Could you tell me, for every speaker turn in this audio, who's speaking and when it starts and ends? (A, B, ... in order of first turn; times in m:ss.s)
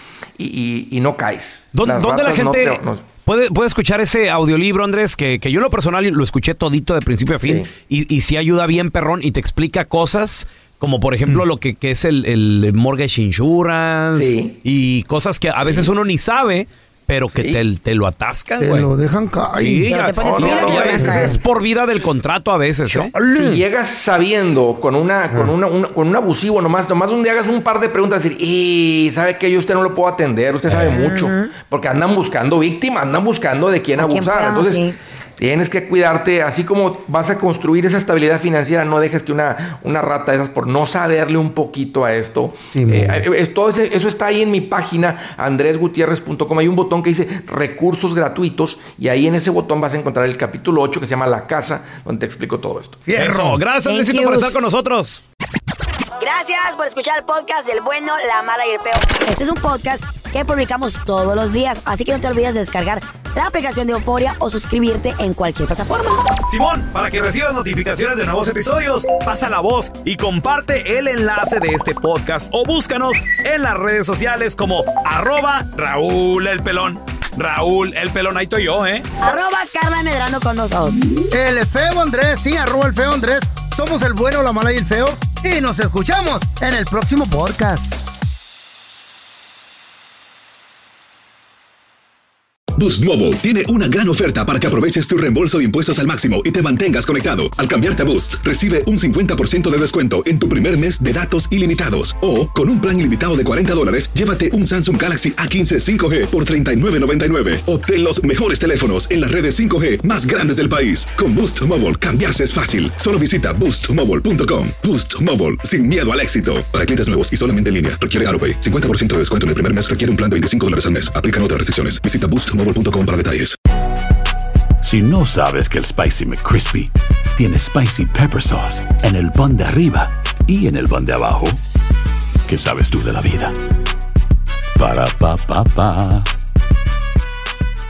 0:00.4-0:03.1 A
0:01.7-0:18.9 B
0:07.4-0:07.7 A
0:14.1-0:14.6 A
0:15.6-0:15.9 A
0:17.3-0:17.6 A
0:18.6-0:19.9 C
0:19.6-0:23.1 B
0:19.9-0:21.4 D
0:20.1-0:21.2 A
0:20.6-0:21.4 C
0:22.9-0:23.6 C
0:23.2-0:34.8 A
0:30.7-0:31.0 B
0:30.9-0:31.5 D
0:34.0-0:34.9 D
0:35.4-0:53.0 A
0:42.7-0:43.2 C
0:53.0-0:53.6 C
0:53.1-0:55.2 B
0:53.8-0:54.6 D
0:56.2-1:06.2 D
1:06.5-1:19.0 B
1:19.2-1:21.0 D
1:21.3-1:27.9 C
1:32.8-2:03.6 E
2:04.8-2:11.6 F
2:12.5-2:13.6 F
2:14.8-2:16.3 F